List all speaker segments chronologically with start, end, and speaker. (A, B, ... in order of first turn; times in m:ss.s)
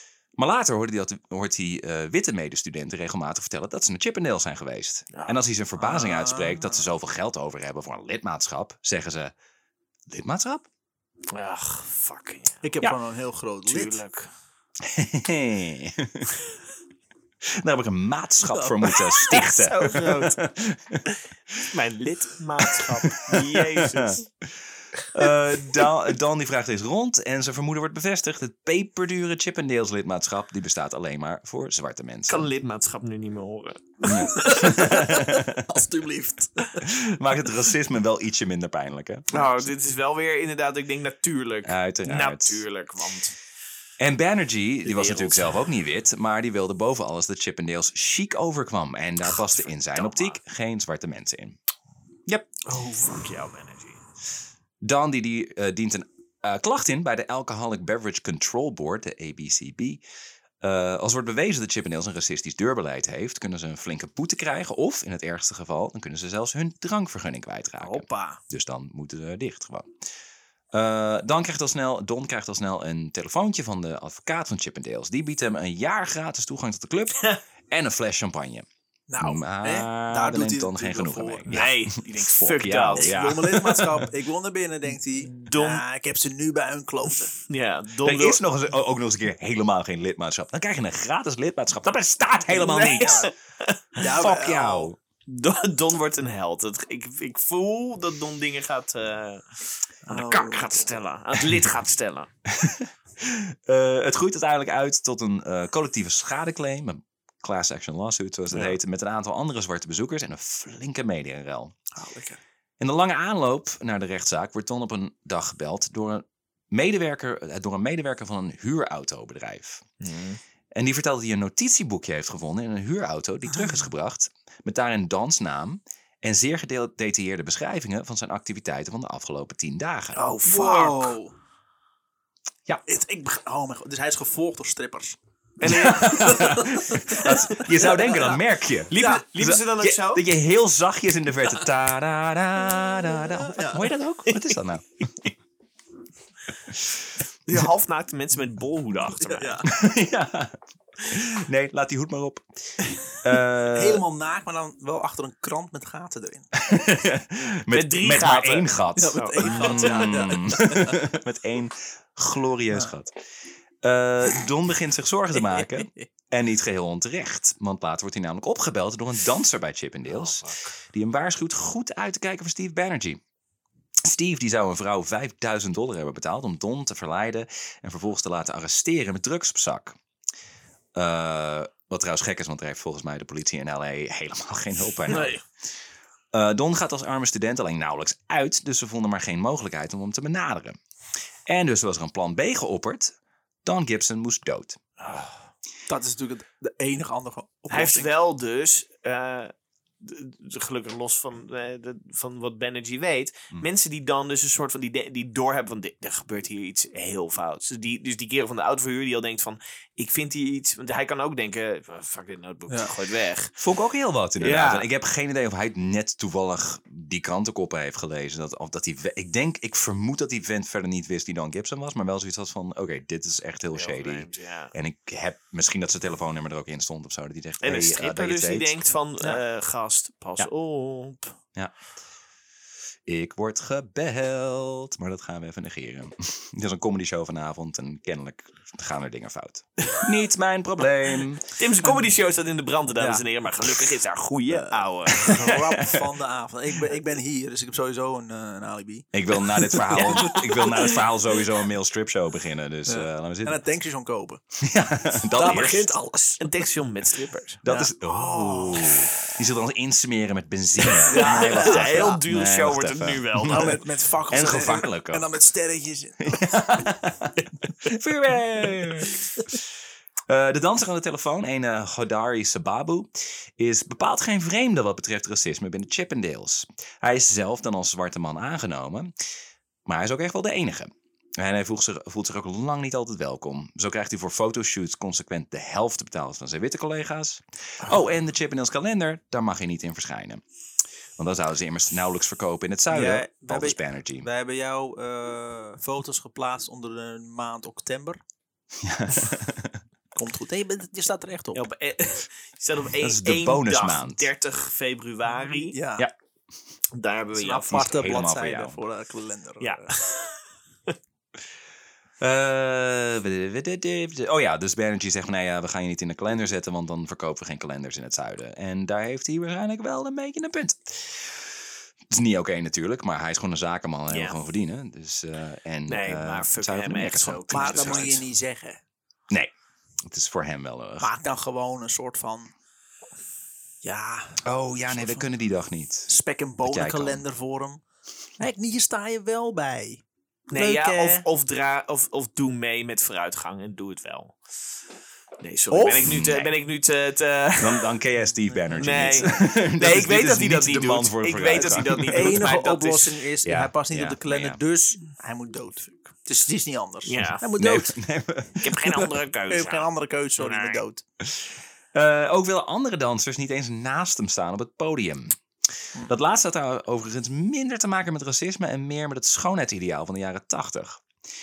0:00.4-0:09.3 A
0:05.1-0:05.4 B
0:05.8-0:06.9 C
0:10.1-0:10.6 A
0:11.3-0:12.6 B
0:12.6-0:14.0 C
0:13.7-0:14.3 B
0:14.8-0:16.3 A
0:17.5-0:21.7 A
0:18.5-0:19.3 C
0:19.2-0:20.4 B
0:21.7-0:24.2 B
0:22.6-0:32.5 A
0:32.3-0:34.9 B
0:34.0-0:35.7 A
0:34.2-0:36.8 C
0:36.8-0:39.7 A
0:39.3-0:43.4 B
0:41.6-0:42.6 A
0:44.0-0:51.6 A
0:44.9-0:45.7 B
0:49.4-0:50.4 B
0:52.7-0:53.2 C
0:53.0-0:54.0 B
0:54.8-1:00.0 A
1:00.6-1:09.9 A
1:07.8-1:08.4 B
1:10.7-1:18.7 A
1:19.1-1:21.6 C
1:19.2-1:24.1 A
1:21.5-1:23.6 B
1:23.0-1:27.3 C
1:25.3-1:25.8 B
1:27.5-1:28.4 B
1:28.0-1:33.3 A
1:32.5-1:33.3 C
1:32.6-1:34.1 B
1:34.0-1:34.9 C
1:34.1-1:35.0 A
1:35.3-1:39.5 B
1:40.1-1:40.9 C
1:40.1-1:42.3 B
1:42.5-1:51.8 A
1:52.0-1:52.4 C
1:52.8-1:59.8 A
2:00.0-2:00.4 B
2:00.7-2:10.2 A
2:10.2-2:11.2 B
2:10.5-2:11.3 C
2:12.9-2:17.4 C
2:15.6-2:20.3 B
2:15.6-2:24.9 A
2:18.9-2:19.3 C
2:23.3-2:23.9 C
2:24.3-2:24.5 B
2:27.5-2:29.6 B
2:29.2-2:29.7 C
2:29.6-2:32.4 A
2:33.1-2:34.0 A
2:33.7-2:36.5 C
2:36.5-2:43.1 A
2:37.7-2:40.3 B
2:39.0-2:41.0 C
2:43.8-2:53.2 A
2:50.1-2:50.7 B
2:54.0-3:00.0 A
3:01.0-3:05.4 A
3:05.1-3:05.4 B
3:06.3-3:10.8 A
3:11.5-3:14.8 A
3:15.0-3:15.4 B
3:15.9-3:18.1 C
3:17.7-3:33.6 B
3:33.6-3:48.8 A
3:34.4-3:34.9 B
3:43.7-3:44.7 B
3:47.6-3:51.4 B
3:53.1-4:01.5 A
4:01.5-4:05.5 B
4:01.8-4:02.1 C
4:03.0-4:03.2 C
4:04.5-4:10.5 C
4:05.1-4:06.1 A
4:09.1-4:13.6 A
4:09.9-4:11.0 B
4:12.9-4:14.4 C
4:14.6-4:16.0 A
4:15.3-4:16.6 C
4:16.4-4:17.6 B
4:17.6-4:23.8 A
4:17.7-4:19.1 C
4:21.0-4:23.8 B
4:21.1-4:22.1 C
4:23.4-4:26.7 C
4:24.3-4:25.2 A
4:26.2-4:29.6 A
4:30.3-4:39.1 A
4:39.9-4:50.4 A
4:51.2-4:54.3 A
4:52.9-4:58.2 C
4:58.8-4:59.8 A
5:00.2-5:01.7 C
5:01.5-5:05.8 B
5:03.0-5:04.3 A
5:05.6-5:06.1 C
5:07.0-5:08.0 B
5:07.4-5:10.0 C
5:07.7-5:08.8 A
5:09.6-5:10.4 B
5:12.2-5:28.2 A
5:24.1-5:24.4 B
5:25.9-5:28.2 B
5:27.5-5:28.8 C
5:30.0-5:31.1 A
5:31.0-5:32.5 C
5:33.8-5:35.3 C
5:34.4-5:36.1 A
5:36.1-5:37.8 C
5:36.6-5:37.2 A
5:38.4-5:40.0 C
5:40.5-5:44.4 B
5:40.6-5:41.2 C
5:45.4-5:48.0 B
5:45.7-5:46.2 C
5:46.0-5:46.6 A
5:47.6-5:52.5 A
5:48.7-5:53.2 B
5:48.8-5:49.4 C
5:51.6-5:58.0 C
5:53.4-5:54.6 A
5:57.1-5:57.4 B
5:57.6-5:58.8 A
5:58.6-6:00.8 B
5:58.9-6:01.0 C
6:01.2-6:05.4 A
6:06.1-6:11.0 A